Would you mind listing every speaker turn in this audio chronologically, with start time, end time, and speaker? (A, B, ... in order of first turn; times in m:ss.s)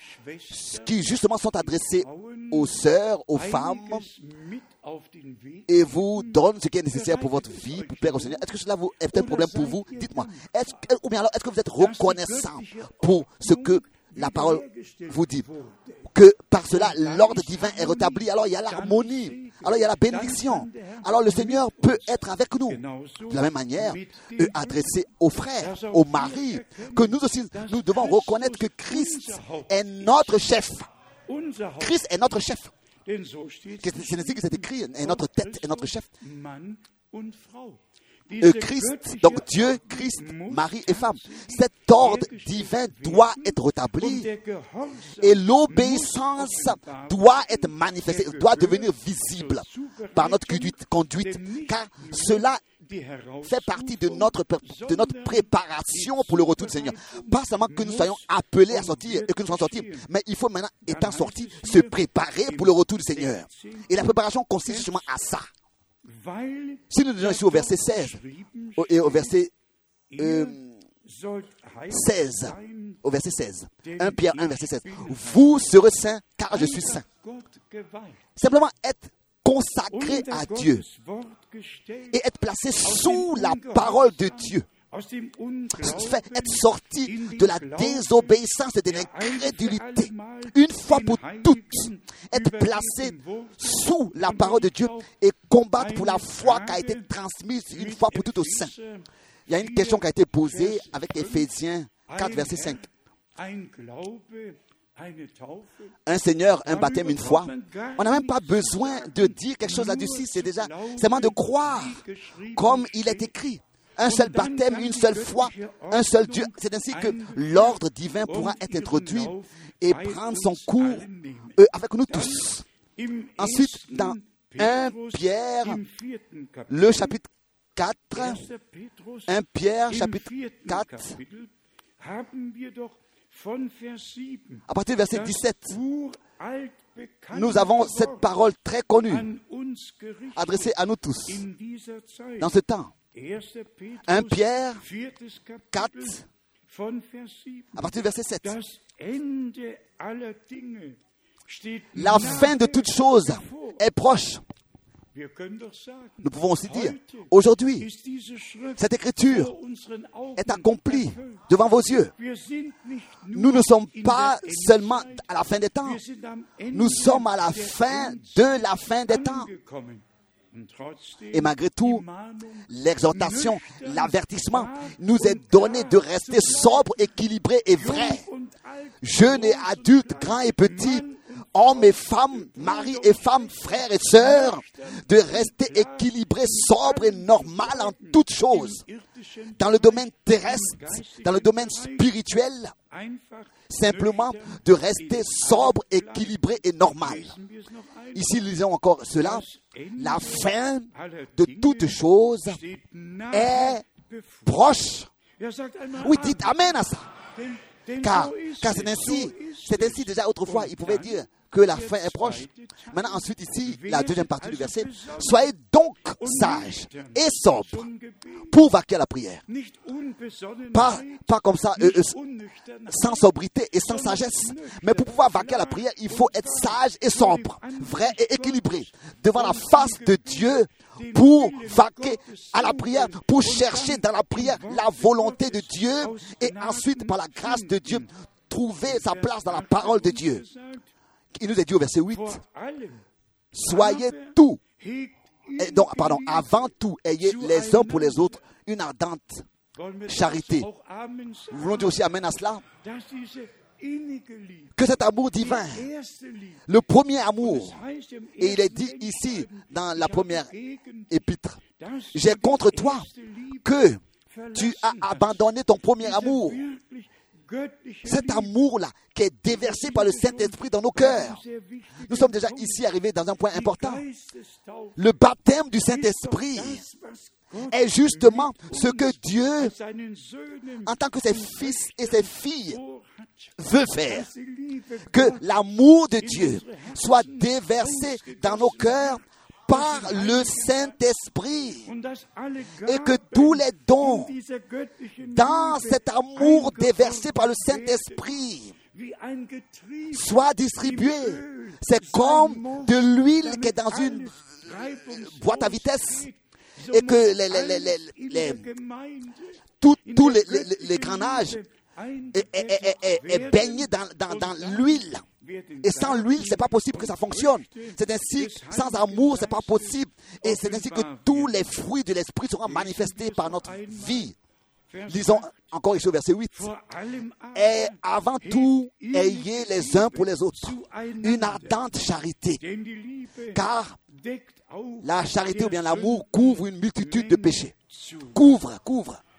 0:00.5-0:04.1 A
0:03.6-0:05.6 B
0:05.7-0:15.4 A
0:14.5-0:16.0 B
0:16.1-0:30.9 A
0:29.0-0:29.4 B
0:31.3-0:31.8 B
0:31.8-0:32.7 A
0:33.0-0:33.9 B
0:33.8-0:36.1 A
0:36.2-0:37.8 B
0:38.4-0:44.3 A
0:44.2-0:45.2 B
0:45.2-0:52.6 A
0:52.9-0:53.3 B
0:53.4-1:05.5 A
1:06.0-1:06.8 B
1:06.9-1:08.2 A
1:07.4-1:08.2 B
1:08.8-1:09.5 A
1:10.2-1:10.8 A
1:11.0-1:12.0 B
1:11.9-1:17.0 A
1:16.6-1:18.2 B
1:18.4-1:20.9 A
1:20.2-1:22.1 B
1:22.1-1:24.7 A
1:24.9-1:25.8 B
1:25.7-1:38.7 A
1:39.5-1:42.9 A
1:43.4-1:45.9 B
1:46.0-2:02.6 A
1:47.1-1:47.6 B
2:03.3-2:03.7 B
2:03.4-2:05.8 A
2:06.0-2:06.7 B
2:06.7-2:08.4 A
2:08.2-2:09.3 B
2:09.3-2:11.2 A
2:10.1-2:14.6 B
2:14.7-2:15.8 A
2:15.4-2:18.1 B
2:17.3-2:19.3 A
2:19.2-2:20.6 B
2:20.3-2:21.5 A
2:21.4-2:22.4 B
2:22.4-2:22.9 A
2:23.1-2:24.3 B
2:24.0-2:24.8 A
2:24.8-2:26.1 B
2:25.7-2:26.2 A
2:26.7-2:27.8 B
2:27.7-2:28.6 A
2:28.5-2:32.8 B
2:31.9-2:34.4 A
2:35.1-2:36.2 B
2:36.2-2:37.9 A
2:38.0-2:38.8 B
2:38.8-2:39.5 A
2:39.3-2:40.6 B
2:40.4-2:42.1 A
2:42.2-2:43.7 B
2:43.3-2:46.0 A
2:44.3-2:44.7 B
2:46.1-2:47.2 B
2:46.7-2:49.5 A
2:49.2-2:51.4 B
2:51.3-2:52.0 A
2:52.7-2:58.2 A
2:55.9-2:56.7 B
2:57.9-2:59.0 B
2:59.0-3:08.8 A
3:09.6-3:12.7 A
3:10.8-3:11.2 B
3:12.9-3:13.5 B
3:13.7-3:17.4 A
3:17.3-3:18.2 B
3:18.1-3:22.6 A
3:20.0-3:20.3 B
3:22.6-3:23.8 B
3:23.3-3:23.8 A
3:24.4-3:25.1 A
3:25.4-3:26.2 B
3:26.0-3:27.1 A
3:27.4-3:30.0 B
3:28.0-3:37.9 A
3:34.6-3:35.1 B
3:38.5-3:39.4 A
3:39.5-3:41.0 B
3:40.7-3:42.2 A
3:42.2-3:42.9 B
3:42.9-4:00.4 A
3:44.2-3:44.9 B
3:59.8-4:00.8 B
4:01.3-4:02.4 A
4:02.3-4:03.0 B
4:03.5-4:04.6 A
4:04.8-4:06.4 B
4:05.6-4:09.5 A
4:09.8-4:11.8 B
4:10.0-4:10.7 A
4:11.5-4:12.6 A
4:12.8-4:14.7 B
4:14.8-4:15.9 A
4:15.6-4:16.6 B
4:16.7-4:17.8 A
4:17.8-4:18.4 B
4:18.4-4:20.5 A
4:21.1-4:21.6 A
4:21.8-4:23.1 B
4:22.1-4:23.1 A
4:23.6-4:24.0 A
4:24.5-4:26.6 A
4:26.3-4:28.2 B
4:28.0-4:31.4 A
4:31.1-4:32.1 B
4:32.0-4:34.0 A
4:33.8-4:34.9 B
4:35.0-4:36.8 A
4:36.2-4:37.7 B
4:37.7-4:39.8 A
4:39.8-4:40.8 B
4:40.8-4:42.8 A
4:42.8-4:43.3 B
4:43.6-4:44.3 A
4:44.5-4:45.2 B
4:45.1-4:51.9 A
4:51.9-4:53.3 B
4:52.8-4:54.4 A
4:54.2-4:55.4 B
4:55.3-4:58.8 A
4:58.9-5:00.2 B
5:00.1-5:06.3 A
5:04.6-5:05.8 B
5:06.9-5:08.7 A
5:07.8-5:09.5 B
5:09.8-5:11.6 A
5:10.2-5:10.9 B
5:12.0-5:12.6 B
5:12.3-5:15.2 A
5:15.5-5:16.6 B
5:15.8-5:24.3 A
5:25.1-5:26.7 A
5:26.6-5:27.6 B
5:27.5-5:32.6 A
5:32.6-5:33.6 B
5:33.5-5:34.0 A
5:34.2-5:35.0 B
5:35.0-5:37.7 A
5:38.3-5:39.2 A